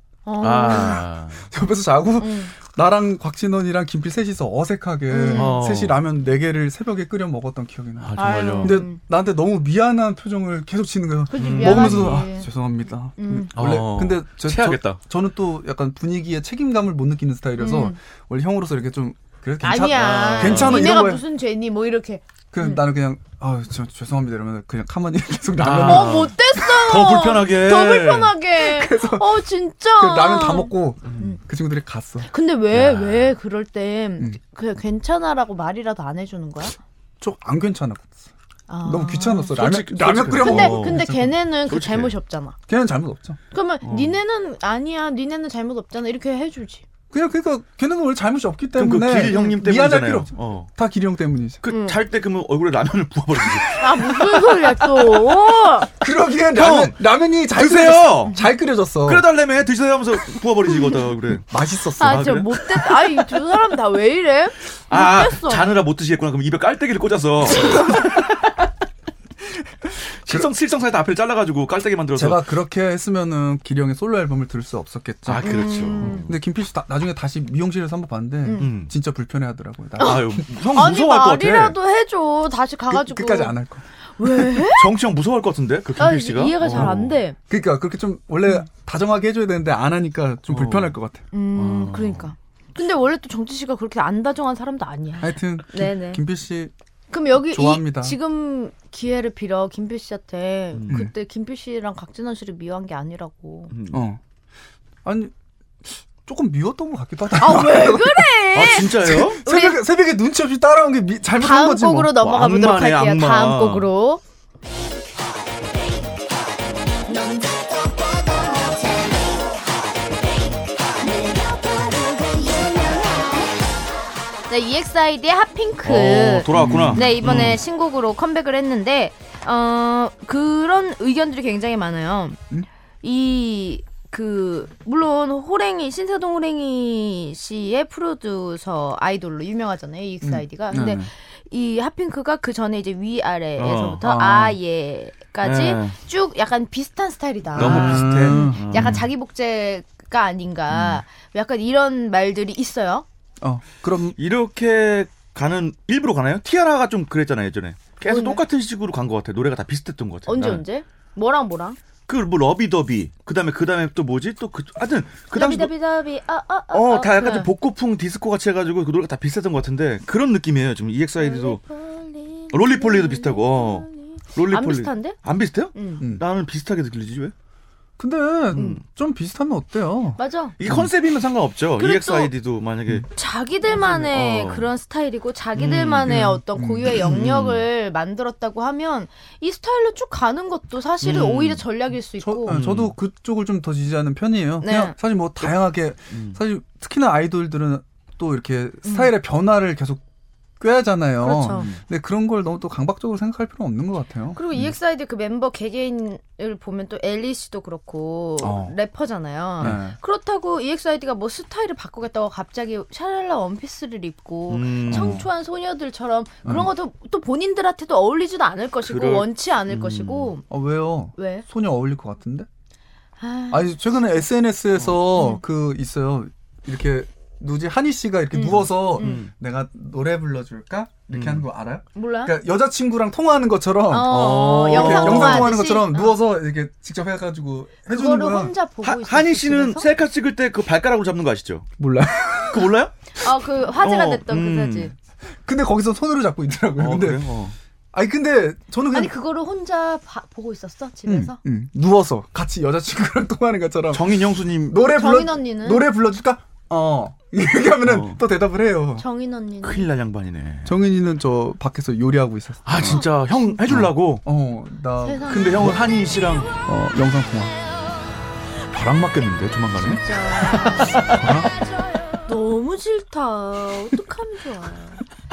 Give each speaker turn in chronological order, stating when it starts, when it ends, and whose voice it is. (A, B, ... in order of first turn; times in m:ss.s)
0:00.2-0:01.0 A
0:00.4-0:01.4 B
0:01.4-0:21.2 C
0:02.2-0:02.5 A
0:05.1-0:05.6 A
0:05.3-0:06.0 B
0:08.0-0:08.8 B
0:08.2-0:09.0 A
0:11.3-0:12.5 A
0:11.4-0:12.2 B
0:13.2-0:13.5 A
0:13.5-0:15.0 B
0:17.6-0:18.0 A
0:19.6-0:22.8 A
0:19.9-0:21.0 B
0:22.5-0:26.3 C
0:25.6-0:28.3 B
0:25.8-0:31.4 A
0:28.6-0:29.4 C
0:30.0-0:32.3 C
0:32.2-0:36.7 A
0:32.7-0:33.3 B
0:37.2-0:38.3 C
0:38.7-0:39.5 A
0:38.8-0:41.3 C
0:39.5-0:41.1 B
0:40.4-0:42.6 A
0:41.6-0:42.1 B
0:42.7-0:43.4 C
0:43.5-0:46.8 A
0:43.8-0:44.2 B
0:47.1-0:51.6 C
0:48.8-0:50.7 B
0:51.6-0:54.5 B
0:51.7-0:52.0 A
0:53.8-0:55.9 A
0:55.8-0:59.2 C
0:56.5-0:57.0 B
0:57.5-0:58.4 B
0:59.0-1:02.8 B
1:01.3-1:02.6 C
1:02.0-1:05.7 A
1:04.9-1:08.4 B
1:07.6-1:08.2 C
1:09.8-1:10.5 C
1:10.1-1:12.4 B
1:12.1-1:20.5 C
1:15.2-1:16.3 B
1:15.4-1:16.3 A
1:18.4-1:18.7 A
1:18.6-1:18.9 B
1:20.0-1:23.6 A
1:20.0-1:21.7 B
1:22.9-1:24.6 C
1:24.2-1:24.9 A
1:24.7-1:27.2 B
1:26.0-1:27.4 A
1:26.6-1:27.0 C
1:27.5-1:31.2 C
1:30.5-1:30.9 B
1:31.3-1:36.2 A
1:31.5-1:32.3 B
1:35.2-1:36.7 C
1:37.1-1:43.7 A
1:37.5-1:38.2 C
1:40.8-1:41.0 B
1:43.7-1:44.0 B
1:43.9-1:44.2 C
1:45.0-1:45.3 C
1:45.8-1:52.2 C
1:47.4-1:49.8 A
1:48.5-1:49.4 B
1:51.4-1:54.2 A
1:52.2-1:53.9 B
1:57.1-1:57.6 A
2:01.0-2:03.4 A
2:04.5-2:12.4 A
2:05.8-2:07.6 B
2:06.5-2:07.5 C
2:13.0-2:33.0 A
2:20.2-2:21.1 C
2:23.6-2:24.0 B
2:24.0-2:24.6 C
2:25.4-2:25.9 B
2:27.5-2:29.1 B
2:27.6-2:29.0 C
2:30.7-2:31.0 C
2:33.4-2:34.2 C
2:34.2-2:40.6 B
2:38.0-2:38.4 A
2:40.3-2:41.8 A
2:42.1-2:45.7 B
2:45.3-2:47.5 A
2:46.7-2:51.6 B
2:51.2-2:55.2 A
2:52.5-2:57.3 B
2:55.7-2:56.0 A
2:58.0-3:00.9 C
2:58.5-2:58.8 A
3:00.2-3:00.5 A
3:00.6-3:03.1 B
3:01.8-3:02.3 A
3:03.1-3:12.6 A
3:03.7-3:04.7 B
3:05.6-3:06.4 B
3:06.0-3:07.1 C
3:06.9-3:07.6 B
3:11.0-3:11.6 B
3:12.2-3:20.0 C
3:12.5-3:12.9 B
3:14.6-3:14.9 A
3:16.1-3:16.4 B
3:18.8-3:19.1 A
3:20.6-3:24.7 C
3:21.2-3:21.7 A
3:21.5-3:21.8 B
3:24.3-3:40.4 A
3:28.4-3:28.7 C
3:29.6-3:30.0 C
3:34.5-3:35.2 B
3:34.9-3:35.3 C
3:38.8-3:40.3 B
3:40.5-3:42.5 C
3:41.2-3:41.4 A
3:43.2-3:43.8 A
3:43.5-3:58.5 C
3:45.1-3:45.4 A
3:48.3-3:49.2 A
3:49.0-3:49.3 B
3:51.1-3:51.4 B
3:51.9-3:52.4 A
3:53.9-3:56.2 A
3:54.0-3:55.5 B
3:57.9-3:59.9 A
3:58.8-4:01.7 B
4:01.8-4:02.7 C
4:02.5-4:04.9 B
4:03.2-4:04.9 A
4:05.3-4:07.2 C
4:06.8-4:07.6 B
4:07.9-4:09.1 C
4:08.9-4:11.4 A
4:11.0-4:19.0 C
4:13.9-4:14.8 B
4:14.9-4:15.8 A
4:17.8-4:18.2 B
4:19.0-4:19.9 A
4:19.6-4:20.7 B
4:20.6-4:23.1 C
4:22.6-4:24.2 B
4:22.8-4:23.6 A
4:23.7-4:25.8 C
4:25.0-4:25.7 A
4:25.2-4:26.5 B
4:26.6-4:27.6 C
4:28.7-4:31.4 B
4:29.8-4:31.2 A
4:31.1-4:31.5 C
4:32.2-4:35.0 A